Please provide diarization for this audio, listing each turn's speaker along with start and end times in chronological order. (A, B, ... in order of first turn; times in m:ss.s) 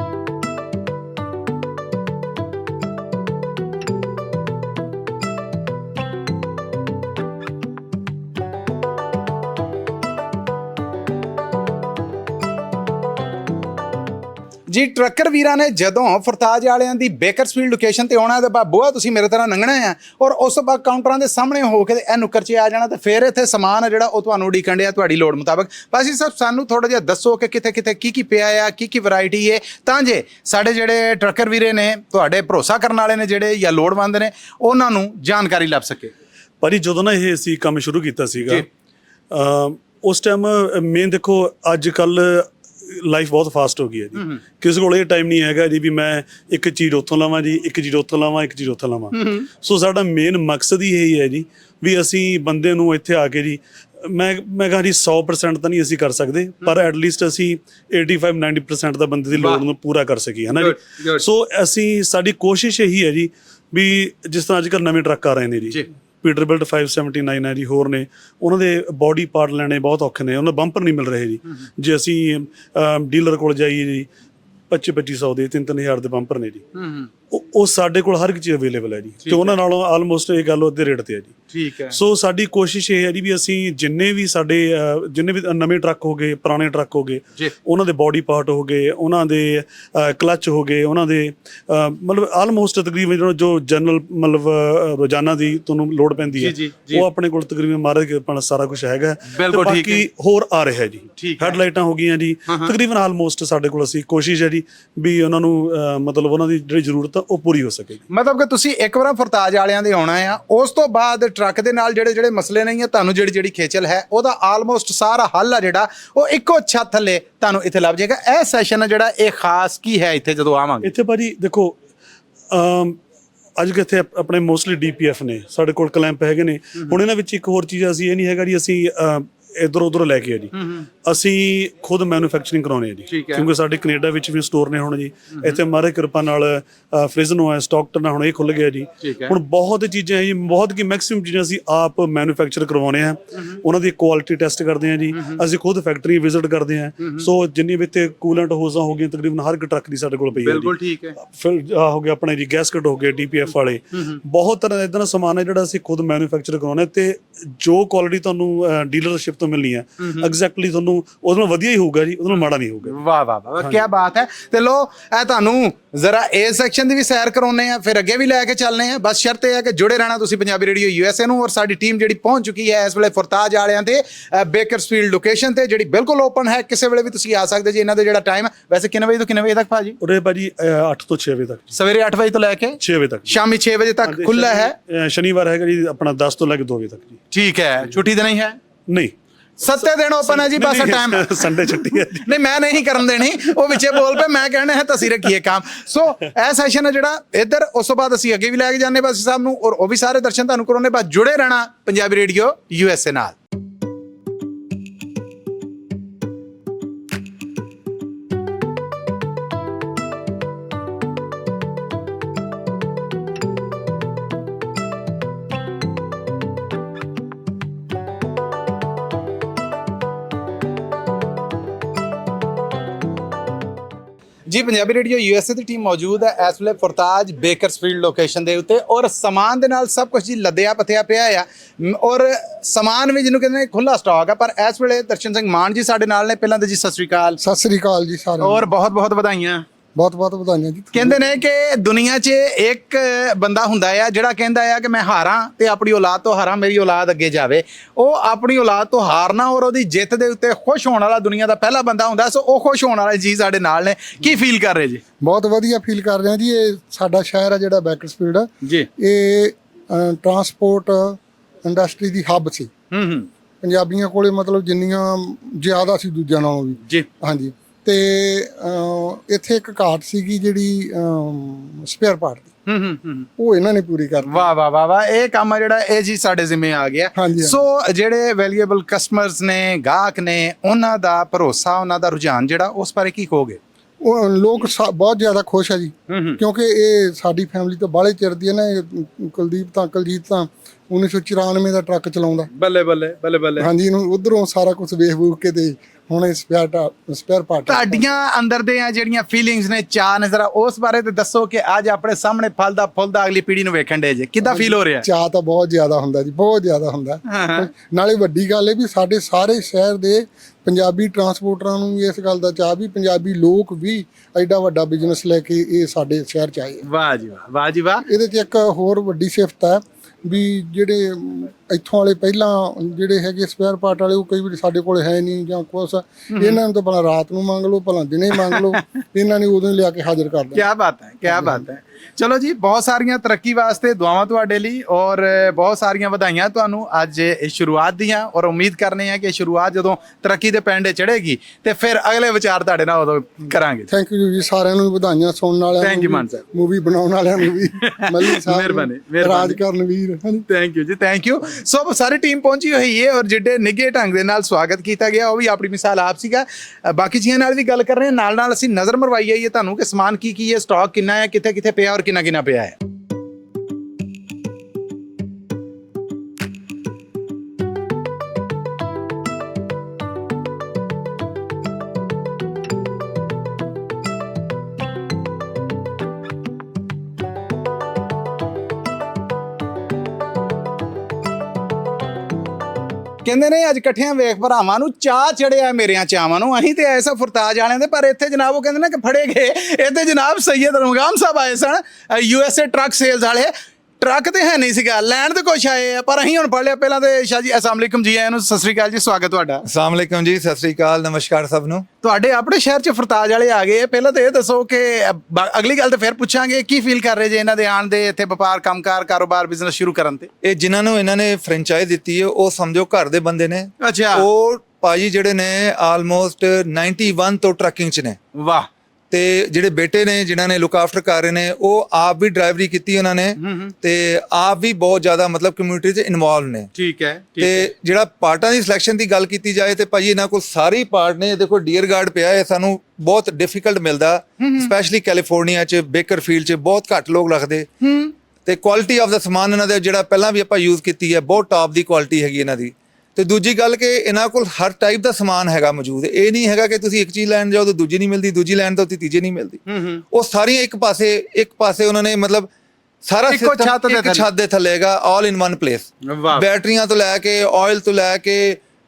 0:14.7-0:36.1 A
0:36.6-0:38.6 B
0:39.3-1:14.1 B
0:49.1-0:49.5 A
0:59.3-0:59.6 A
1:00.5-1:01.2 A
1:14.7-1:16.6 B
1:16.7-1:17.1 A
1:17.3-1:21.4 B
1:19.2-1:19.6 A
1:21.5-1:22.0 A
1:21.9-1:48.0 B
1:36.4-1:37.0 A
1:39.3-1:40.0 A
1:41.2-1:41.6 A
1:42.5-1:42.7 A
1:48.1-2:00.9 A
2:00.8-2:01.8 B
2:02.5-2:03.0 B
2:03.6-2:43.0 B
2:10.6-2:10.8 A
2:13.1-2:13.5 A
2:19.0-2:19.3 A
2:30.4-2:31.2 A
2:40.0-2:40.3 A
2:42.9-3:00.0 A
2:43.6-2:43.8 B
3:00.0-3:01.7 B
3:01.7-3:04.7 A
3:02.8-3:03.4 B
3:04.0-3:07.2 B
3:07.3-3:08.6 A
3:08.9-3:09.1 B
3:09.6-3:23.4 A
3:10.2-3:12.3 B
3:44.5-3:57.4 A
3:57.4-3:58.7 C
3:58.4-3:59.6 A
3:59.9-4:01.2 C
4:00.9-4:15.0 A
4:15.2-4:22.7 C
4:22.9-4:23.3 A
4:23.6-4:32.5 C
4:32.6-4:33.3 A
4:33.4-4:34.5 C
4:34.3-4:43.6 A
4:37.2-4:37.6 C
4:44.0-4:52.5 C
4:46.1-4:46.4 A
4:52.5-4:53.7 A
4:53.6-4:58.2 C
4:57.7-5:05.0 A
5:04.4-5:16.8 C
5:07.3-5:07.7 A
5:16.8-5:18.0 A
5:18.0-5:30.7 C
5:28.5-5:28.8 A
5:30.5-5:43.9 A
5:31.3-5:31.6 C
5:43.9-5:50.5 C
5:45.8-5:46.4 A
5:47.8-5:49.6 A
5:50.5-6:02.7 A
6:23.2-6:39.6 A
6:39.6-6:41.8 D
6:42.0-6:50.3 A
6:50.4-6:58.2 D
6:53.8-6:54.2 A
6:58.3-6:58.7 A
6:59.1-7:06.7 D
7:03.4-7:03.7 A
7:06.7-7:07.7 A
7:07.4-7:17.7 D
7:14.4-7:14.7 A
7:17.8-7:18.1 A
7:18.4-7:29.6 D
7:29.7-7:30.0 A
7:30.1-7:32.5 D
7:33.0-7:38.6 D
7:33.3-7:34.2 A
7:36.0-7:36.4 A